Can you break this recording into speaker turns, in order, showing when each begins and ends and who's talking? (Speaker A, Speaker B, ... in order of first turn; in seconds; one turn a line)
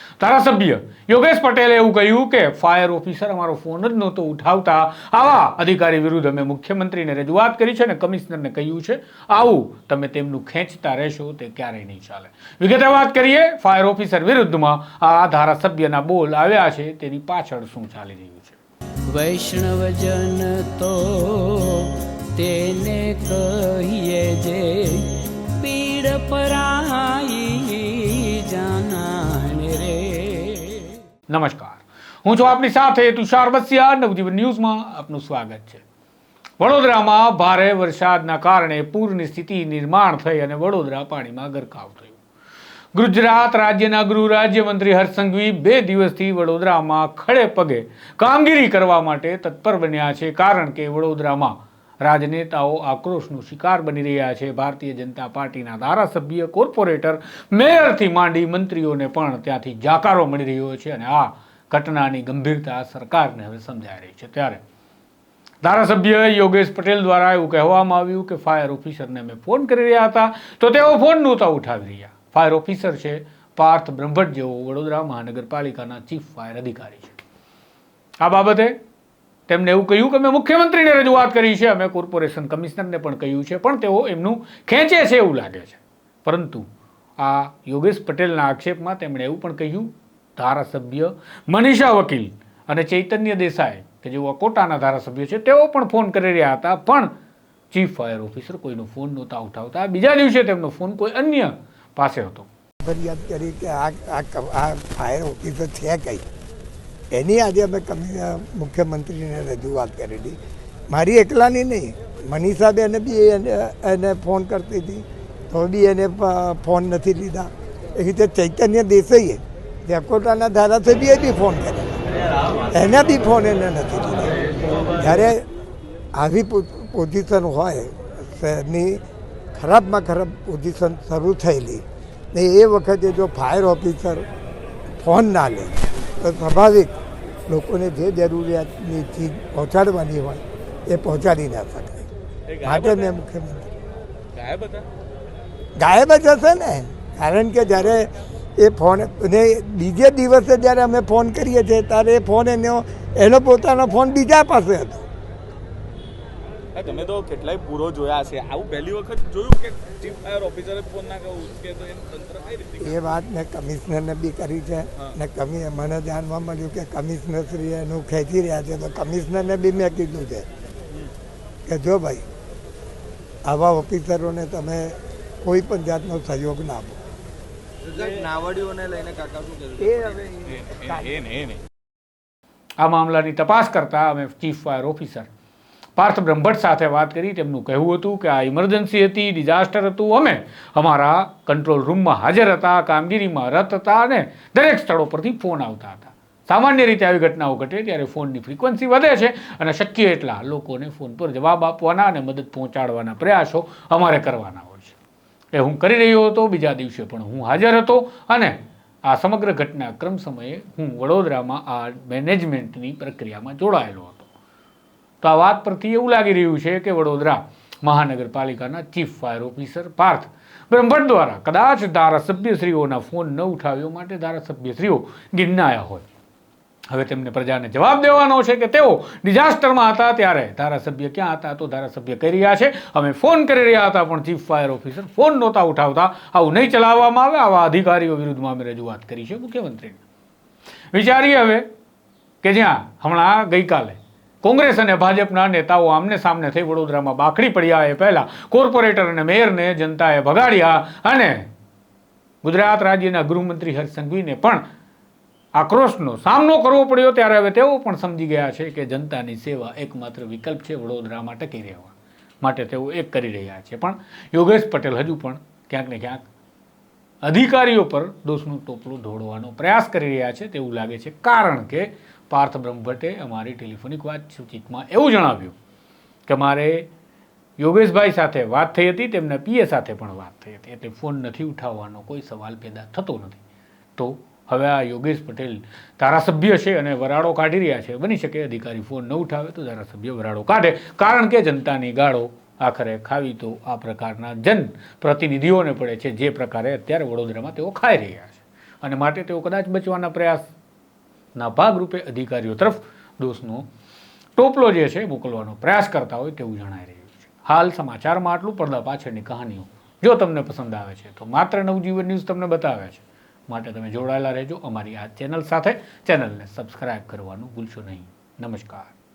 Speaker A: 0.2-18.6
Speaker B: 19.1-30.9
Speaker A: 31.3-35.8
Speaker A: 36.6-42.2
Speaker A: 42.9-64.6
Speaker A: 65.6-77.2
Speaker A: 78.2-78.7
Speaker A: 79.5-86.7
Speaker A: 87.2-97.1
Speaker A: 97.7-102.5
Speaker C: 102.8-106.2
Speaker C: 107.1-110.4
Speaker C: 110.9-122.0
Speaker C: 122.7-124.3
Speaker C: 125.0-125.4
Speaker C: 126.1-129.0
Speaker C: 129.5-134.2
Speaker C: 135.0-136.9
Speaker C: 137.5-142.1
Speaker D: 142.5-143.1
Speaker C: 142.6-143.7
Speaker D: 144.3-144.9
Speaker C: 145.8-155.1
Speaker D: 156.7-162.9
Speaker C: 162.8-170.5
Speaker C: 171.7-172.2
Speaker C: 173.4-177.0
Speaker D: 177.9-180.0
Speaker C: 178.1-178.6
Speaker C: 179.8-181.2
Speaker D: 180.5-181.6
Speaker A: 182.8-185.3
Speaker A: 186.0-204.9
Speaker A: 205.5-214.3
Speaker A: 215.2-226.1
Speaker A: 226.9-240.0
Speaker A: 240.9-241.7
Speaker A: 242.4-251.5
Speaker A: 252.4-254.6
Speaker A: 255.6-266.2
Speaker A: 267.2-275.5
Speaker A: 276.3-276.9
Speaker A: 277.6-283.4
Speaker A: 283.9-300.5
Speaker A: 301.3-303.6
Speaker A: 304.4-318.9